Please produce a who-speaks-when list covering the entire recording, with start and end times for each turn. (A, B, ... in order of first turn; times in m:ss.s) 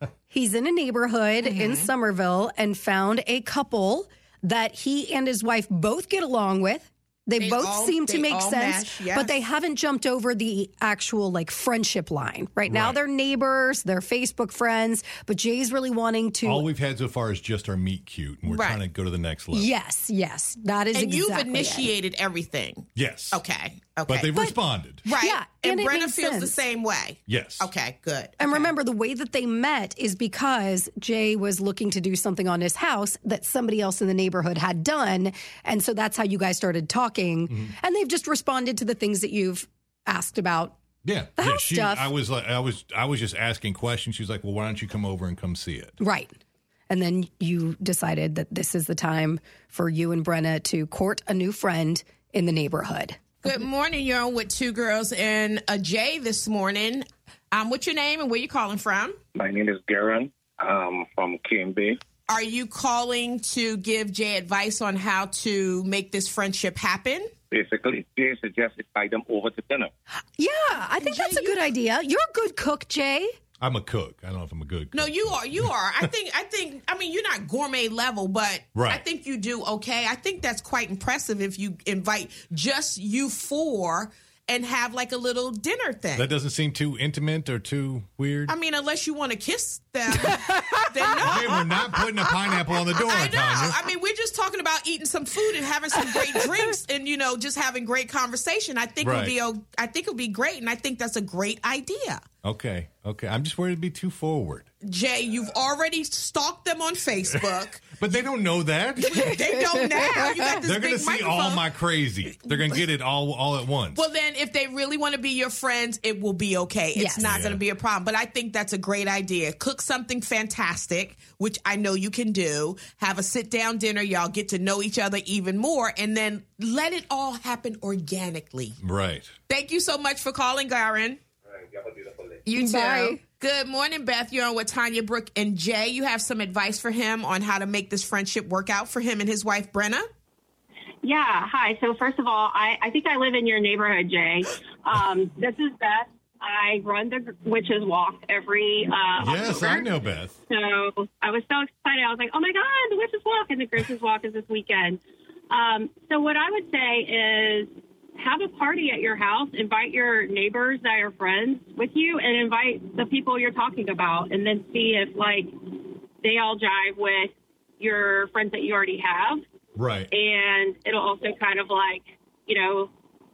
0:00.3-0:16.7 A
0:01.4-0:01.9 B
0:07.4-0:09.4 B
0:12.7-0:13.0 C
0:16.4-0:19.7 C
0:18.5-0:18.8 B
0:19.5-0:21.9 A
0:20.9-0:24.3 B
0:23.0-0:23.4 C
0:24.1-0:25.0 C
0:25.0-0:28.7 B
0:25.2-0:26.5 A
0:27.3-0:27.7 C
0:28.4-0:40.8 A
0:37.5-0:37.7 C
0:41.0-0:45.9 C
0:41.4-0:42.1 A
0:46.0-0:46.3 A
0:46.9-0:53.4 A
0:53.4-0:59.2 B
0:59.4-1:02.0 D
1:02.3-1:07.3 B
1:07.5-1:09.9 D
1:10.4-1:13.3 A
1:11.0-1:11.6 B
1:13.6-1:16.1 C
1:14.9-1:26.3 B
1:18.7-1:19.0 C
1:26.2-1:28.5 C
1:28.5-1:31.7 B
1:30.3-1:30.8 A
1:31.2-1:33.8 C
1:33.0-1:42.2 B
1:39.0-1:39.4 C
1:42.4-1:44.7 C
1:44.8-1:47.8 B
1:47.3-1:49.4 C
1:49.0-1:51.6 B
1:49.2-1:50.4 A
1:50.6-1:54.0 C
1:54.0-2:08.8 B
1:57.0-1:57.3 A
1:57.2-1:57.6 C
2:08.8-2:09.3 C
2:09.5-2:11.2 B
2:12.5-2:20.1 B
2:12.6-2:13.2 A
2:21.0-2:29.9 E
2:29.2-2:30.4 C
2:30.5-2:35.0 E
2:35.5-2:45.5 E
2:46.2-2:49.4 E
2:49.8-2:50.1 C
2:50.1-2:52.9 E